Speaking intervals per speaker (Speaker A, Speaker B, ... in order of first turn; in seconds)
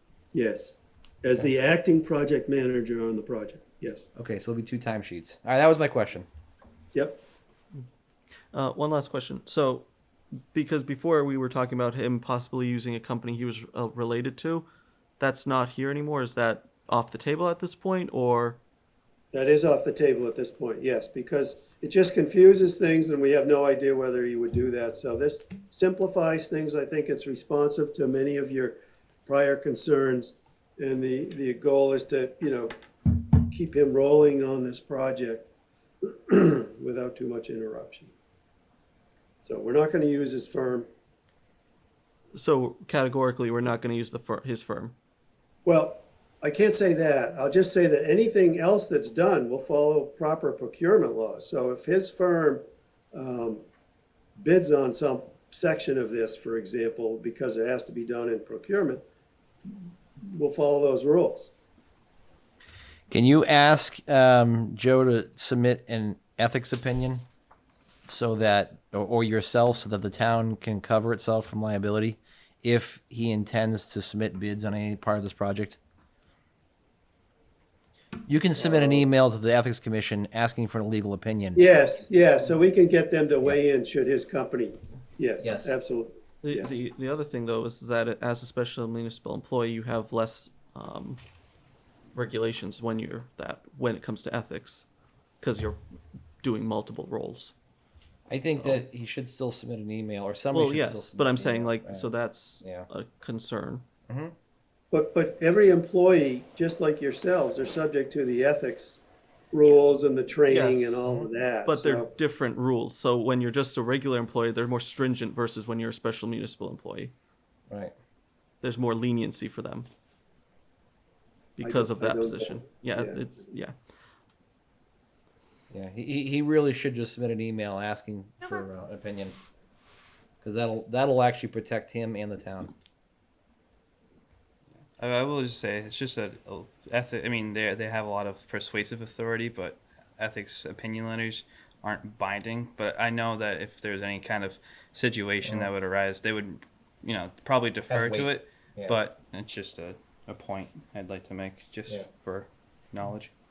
Speaker A: 0.3-4.1, 6.9-7.2, 19.3-35.5, 36.0-38.1, 39.4-40.9, 45.6-53.6, 54.4-59.0, 60.2-61.5, 78.6-79.1, 81.5-86.8, 104.9-109.0, 109.5-112.1, 121.6-123.2
Speaker B: 4.2-6.3, 63.1-67.2, 68.1-75.8, 78.3-81.6, 85.4-85.7, 98.3-102.9, 104.1-104.3, 125.7-129.4, 130.4-132.7, 145.4-145.7, 147.9-149.0
Speaker C: 8.5-14.7, 15.2-18.6, 42.4-44.9, 86.4-91.2, 92.1-94.8, 95.4-95.8, 96.4-97.5, 98.5-98.8, 100.5-103.8, 110.5-111.0, 111.7-117.1, 118.6-119.9, 121.6-123.7
Speaker D: 135.0-153.3